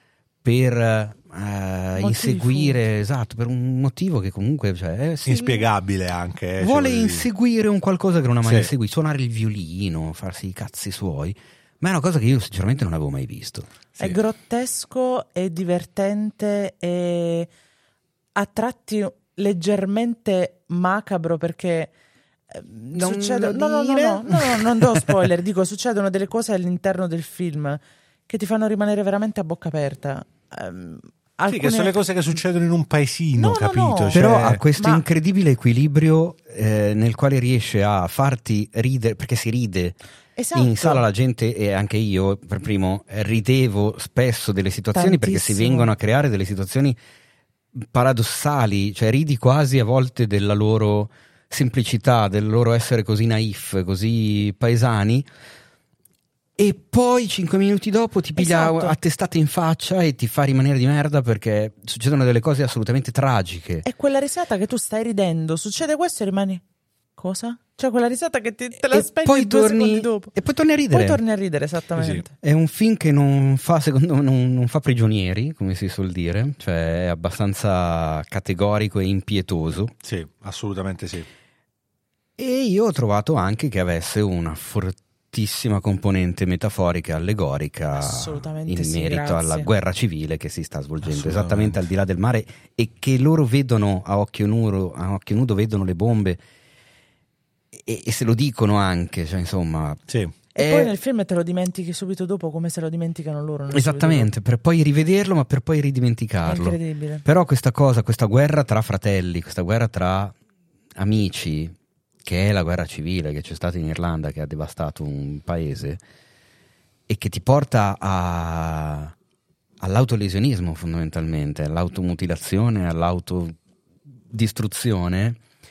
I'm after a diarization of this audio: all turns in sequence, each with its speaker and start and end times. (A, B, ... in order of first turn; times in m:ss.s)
0:00.4-0:05.6 A
0:02.0-0:02.8 B
0:05.2-0:07.3 C
0:06.6-0:13.7 A
0:08.4-0:08.7 C
0:14.0-0:17.5 B
0:18.4-0:21.9 B
0:22.5-0:32.0 B
0:22.9-0:25.1 A
0:31.5-0:34.6 C
0:33.4-0:35.0 B
0:34.1-0:40.0 A
0:40.4-0:41.0 B
0:40.5-0:47.0 A
0:44.9-0:45.9 B
0:47.8-0:55.3 A
0:56.6-1:03.8 A
0:58.4-0:59.0 B
1:03.8-1:06.6 B
1:07.2-1:10.3 B
1:08.9-1:11.2 A
1:10.9-1:12.3 B
1:12.0-1:12.2 C
1:12.4-1:19.9 A
1:20.0-1:21.3 C
1:22.4-1:36.4 A
1:28.0-1:29.7 B
1:31.0-1:31.8 C
1:37.7-1:40.0 A
1:40.1-1:40.3 C
1:40.5-1:44.3 B
1:40.6-1:40.9 A
1:43.7-1:50.3 A
1:46.4-1:47.2 B
1:51.0-1:56.0 A
1:57.1-1:59.1 A
1:59.8-2:03.5 A
2:04.3-2:05.4 A